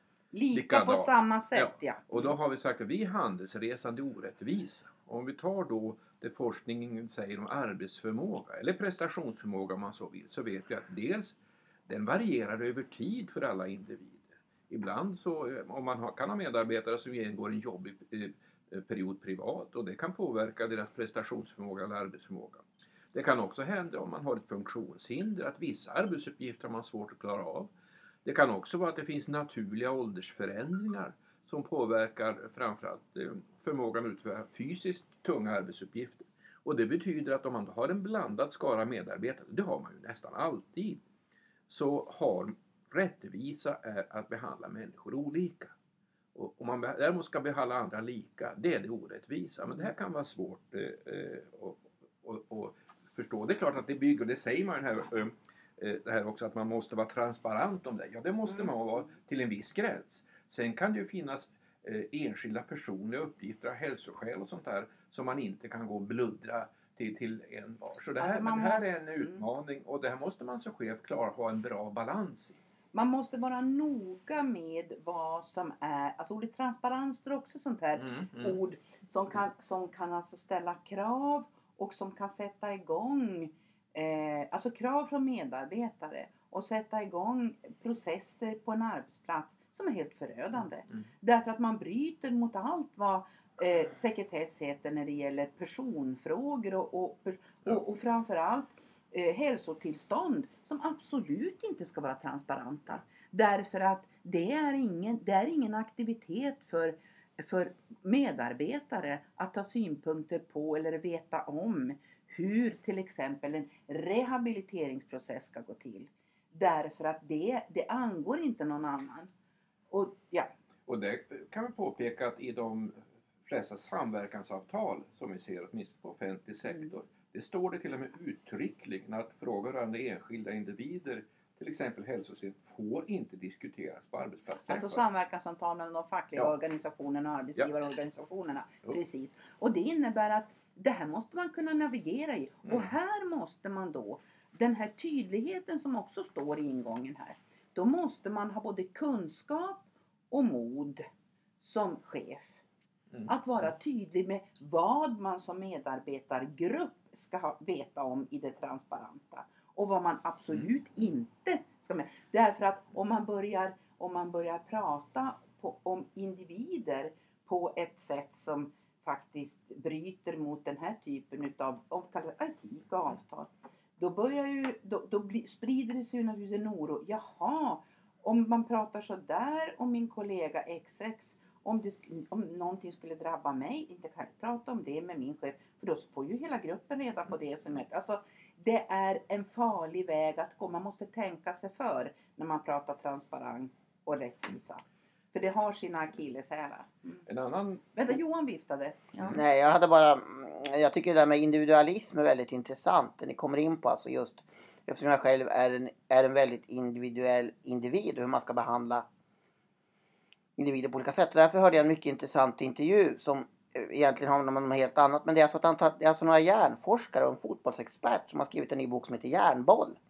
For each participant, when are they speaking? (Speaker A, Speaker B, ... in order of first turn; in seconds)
Speaker A: 0.3-2.3, 58.5-58.7, 68.2-69.5, 72.9-119.3, 119.9-120.5, 126.7-126.9, 134.7-151.0, 151.6-152.5, 153.2-197.2, 197.9-199.4
Speaker B: 0.5-27.7, 28.2-41.0, 41.7-45.7, 46.3-72.6, 78.0-78.6, 120.9-135.0, 142.7-142.9, 197.2-198.0
Speaker C: 199.3-209.0, 210.6-220.0